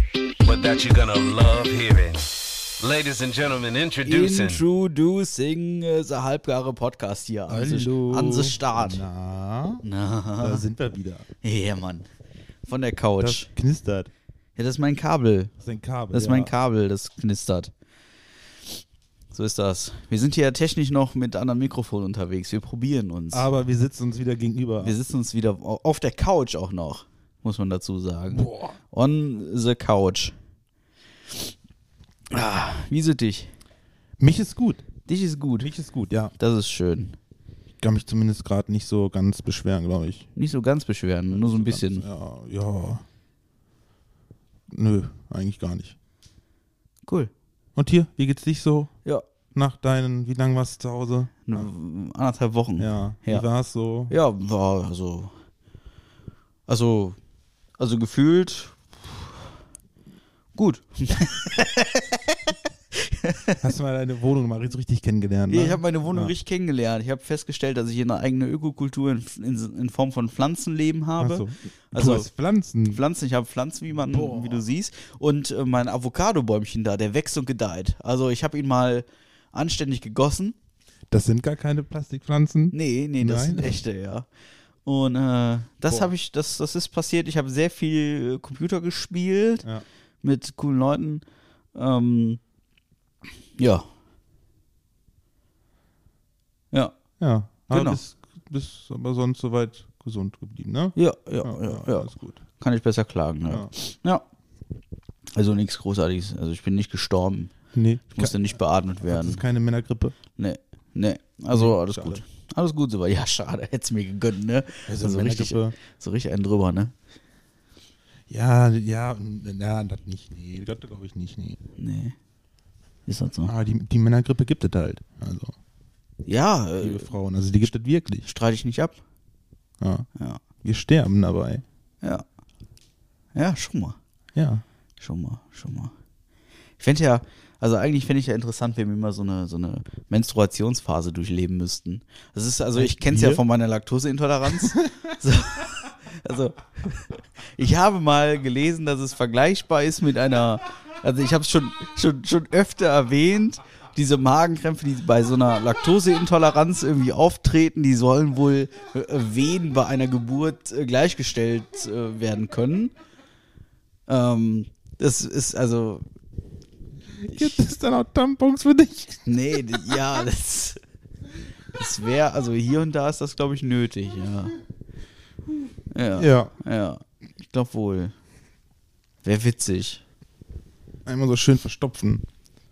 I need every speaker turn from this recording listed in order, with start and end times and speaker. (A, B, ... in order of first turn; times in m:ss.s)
0:00.4-0:04.6 A
0:04.0-0:09.0 B
0:07.5-0:09.8 C
0:09.8-0:10.6 B
0:10.4-0:11.2 C
0:11.4-0:12.0 B
0:12.7-0:13.5 B
0:13.2-0:14.1 C
0:14.6-0:15.5 B
0:15.6-0:16.5 C
0:16.1-0:17.7 B
0:19.3-0:23.5 B
0:23.3-0:24.9 C
0:24.8-0:30.3 B
0:28.3-0:28.7 C
0:32.3-0:33.5 B
0:34.2-0:34.8 C
0:35.1-0:35.7 B
0:35.6-0:36.3 C
0:36.4-0:37.2 B
0:37.8-0:40.3 C
0:40.4-0:42.0 B
0:41.3-0:43.0 C
0:44.7-0:45.9 C
0:47.0-0:47.3 B
0:47.8-0:48.9 C
0:49.5-0:51.7 C
0:51.5-0:53.4 B
0:52.8-0:54.1 C
0:54.1-0:55.3 B
0:56.7-0:57.2 B
0:57.8-0:58.8 B
1:00.6-1:02.4 B
1:02.9-1:03.6 B
1:03.6-1:06.3 C
1:05.5-1:12.3 B
1:11.2-1:13.0 C
1:12.9-1:20.5 B
1:14.1-1:14.6 C
1:21.1-1:23.8 C
1:22.7-1:24.3 B
1:24.8-1:29.6 B
1:30.2-1:31.2 B
1:31.7-1:32.4 B
1:33.6-1:33.8 B
1:37.2-1:42.4 C
1:37.7-1:38.0 B
1:40.9-1:44.2 B
1:45.4-1:47.5 B
1:47.7-1:48.4 C
1:48.1-1:49.4 B
1:49.0-1:50.1 C
1:50.4-1:56.9 B
1:51.5-1:52.2 C
1:54.9-1:55.8 C
1:58.3-2:01.6 C
2:01.8-2:02.2 B
2:03.1-2:03.5 B
2:03.4-2:05.5 C
2:06.2-2:07.1 B
2:06.8-2:08.2 C
2:08.2-2:09.0 B
2:09.8-2:10.1 C
2:10.6-2:11.6 C
2:13.3-2:14.0 B
2:14.3-2:14.6 C
2:15.0-2:15.9 B
2:16.8-2:42.9 B
2:22.8-2:23.4 C
2:44.1-2:46.0 B
2:47.2-2:50.0 C
2:49.2-2:50.8 B
2:51.7-2:54.6 B
2:55.9-2:58.1 B
2:56.1-2:56.5 C
2:59.2-3:00.0 B
3:01.0-3:02.2 C